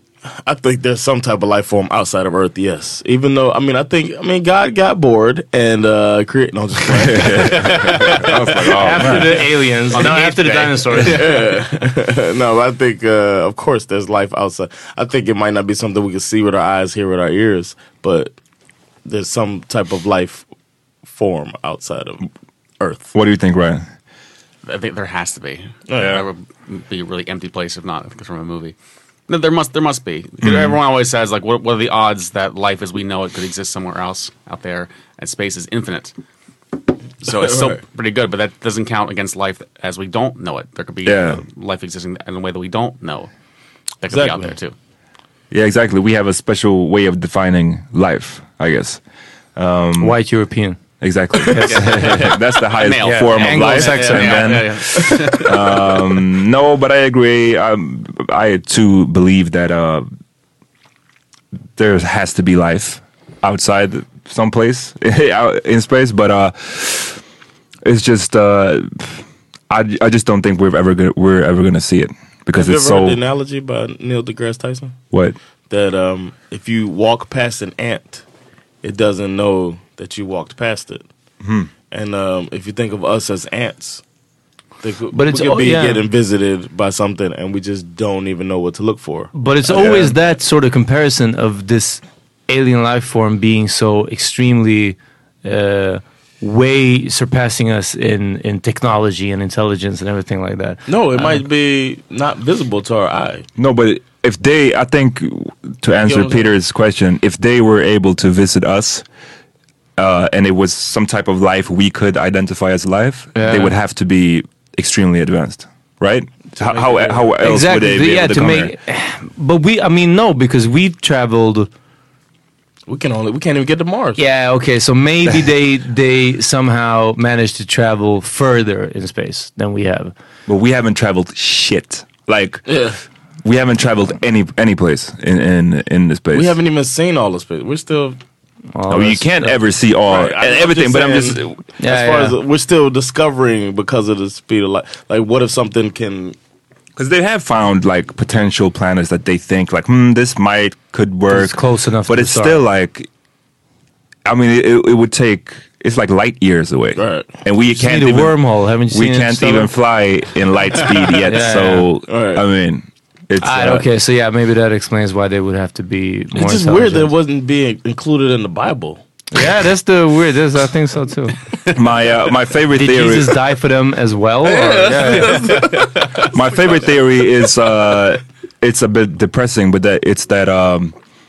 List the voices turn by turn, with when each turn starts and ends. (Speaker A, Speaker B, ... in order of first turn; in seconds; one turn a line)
Speaker A: 0.4-7.9
Speaker B: 6.9-9.3
Speaker C: 7.7-8.3
Speaker D: 8.8-11.2
Speaker C: 9.9-11.3
Speaker A: 11.0-18.3
Speaker A: 19.0-20.4
Speaker A: 21.0-22.3
Speaker A: 22.8-23.1
Speaker B: 23.1-23.9
Speaker C: 24.6-28.7
Speaker A: 25.9-26.2
Speaker B: 26.0-26.2
Speaker C: 29.3-36.1
Speaker B: 30.4-30.8
Speaker C: 37.2-43.3
Speaker A: 37.3-37.8
Speaker B: 41.0-41.4
Speaker C: 44.0-44.7
Speaker A: 44.1-44.5
Speaker B: 45.5-49.0
Speaker B: 49.5-50.2
Speaker D: 50.0-50.8
Speaker B: 51.0-60.1
Speaker D: 51.4-52.0
Speaker C: 51.5-55.8
Speaker D: 53.0-54.6
Speaker B: 61.8-67.2
Speaker B: 67.8-73.2
Speaker A: 72.5-75.0
Speaker B: 75.1-75.3
Speaker A: 75.7-78.2
Speaker A: 78.8-81.0
Speaker B: 81.4-81.7
Speaker A: 81.9-84.0
Speaker A: 84.8-90.2
Speaker D: 85.1-86.0
Speaker D: 89.3-101.4
Speaker A: 100.9-103.5
Speaker B: 103.6-109.0
Speaker A: 106.1-106.4
Speaker B: 110.0-118.7
Speaker D: 113.3-113.7
Speaker A: 116.6-117.2
Speaker D: 117.4-121.7
Speaker A: 122.9-124.2
Speaker D: 124.2-130.1
Speaker B: 130.4-132.8
Speaker A: 132.7-133.0
Speaker B: 133.4-136.6
Speaker A: 136.3-138.2
Speaker D: 138.7-139.5
Speaker B: 138.9-141.6
Speaker A: 140.1-146.3
Speaker D: 141.8-142.3
Speaker B: 146.9-153.1
Speaker D: 151.3-152.6
Speaker B: 154.2-163.8
Speaker A: 156.9-157.3
Speaker D: 157.7-159.7
Speaker D: 161.3-161.9
Speaker A: 162.1-162.4
Speaker D: 163.4-167.1
Speaker A: 166.3-169.0
Speaker D: 169.3-171.3
Speaker B: 171.7-173.3
Speaker D: 172.7-175.5
Speaker A: 174.4-176.3
Speaker B: 176.3-180.9